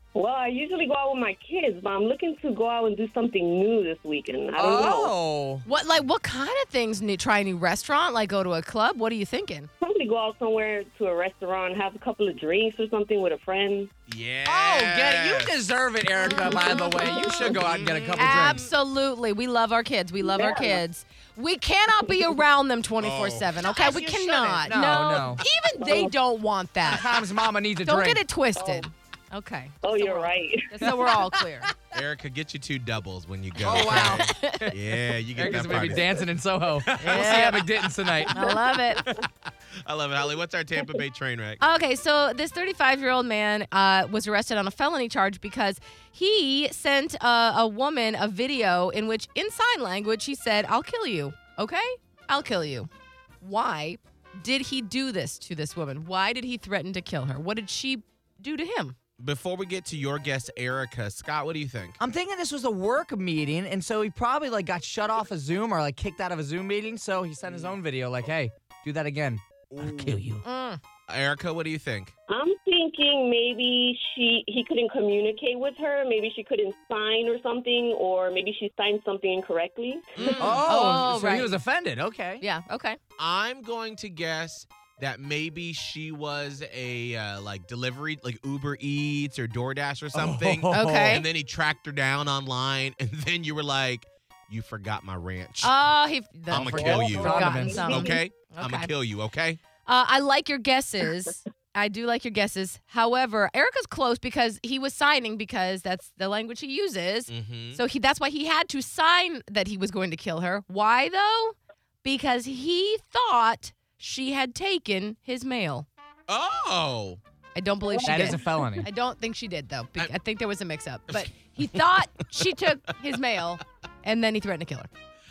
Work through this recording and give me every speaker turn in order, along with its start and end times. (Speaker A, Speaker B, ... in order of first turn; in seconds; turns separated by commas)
Speaker A: 0.1-5.1, Speaker B: 4.5-5.6, Speaker C: 5.7-9.7, Speaker A: 9.8-13.9, Speaker D: 14.1-15.6, Speaker B: 14.4-18.6, Speaker C: 16.3-27.1, Speaker D: 17.5-18.7, Speaker A: 20.2-20.8, Speaker A: 22.0-22.3, Speaker D: 23.0-23.5, Speaker B: 23.6-25.4, Speaker A: 25.8-26.1, Speaker B: 26.8-28.2, Speaker C: 27.8-31.7, Speaker A: 28.6-28.9, Speaker A: 29.8-31.0, Speaker B: 30.8-31.5, Speaker D: 31.9-36.2, Speaker B: 33.6-34.8, Speaker C: 33.8-34.7, Speaker B: 35.3-38.3, Speaker D: 36.8-37.7, Speaker C: 37.0-37.6, Speaker A: 38.2-39.2, Speaker C: 38.3-39.1, Speaker D: 39.8-41.6, Speaker C: 41.6-52.9, Speaker C: 53.4-59.0, Speaker D: 59.2-62.0, Speaker B: 62.0-70.4, Speaker D: 67.4-67.7, Speaker D: 69.7-70.2, Speaker C: 70.4-70.8, Speaker D: 71.1-72.1, Speaker A: 72.3-80.4, Speaker D: 80.2-80.6, Speaker C: 80.2-81.5, Speaker B: 80.4-82.4, Speaker C: 82.4-83.0, Speaker D: 83.2-95.7, Speaker B: 90.1-91.2, Speaker C: 90.7-91.2, Speaker C: 95.6-98.9, Speaker D: 96.5-99.6, Speaker B: 96.5-98.1, Speaker A: 96.8-98.1, Speaker C: 99.8-115.9, Speaker D: 107.3-107.8, Speaker D: 116.3-117.2, Speaker C: 117.5-124.9, Speaker A: 117.9-118.7, Speaker B: 118.0-118.9, Speaker D: 121.1-121.8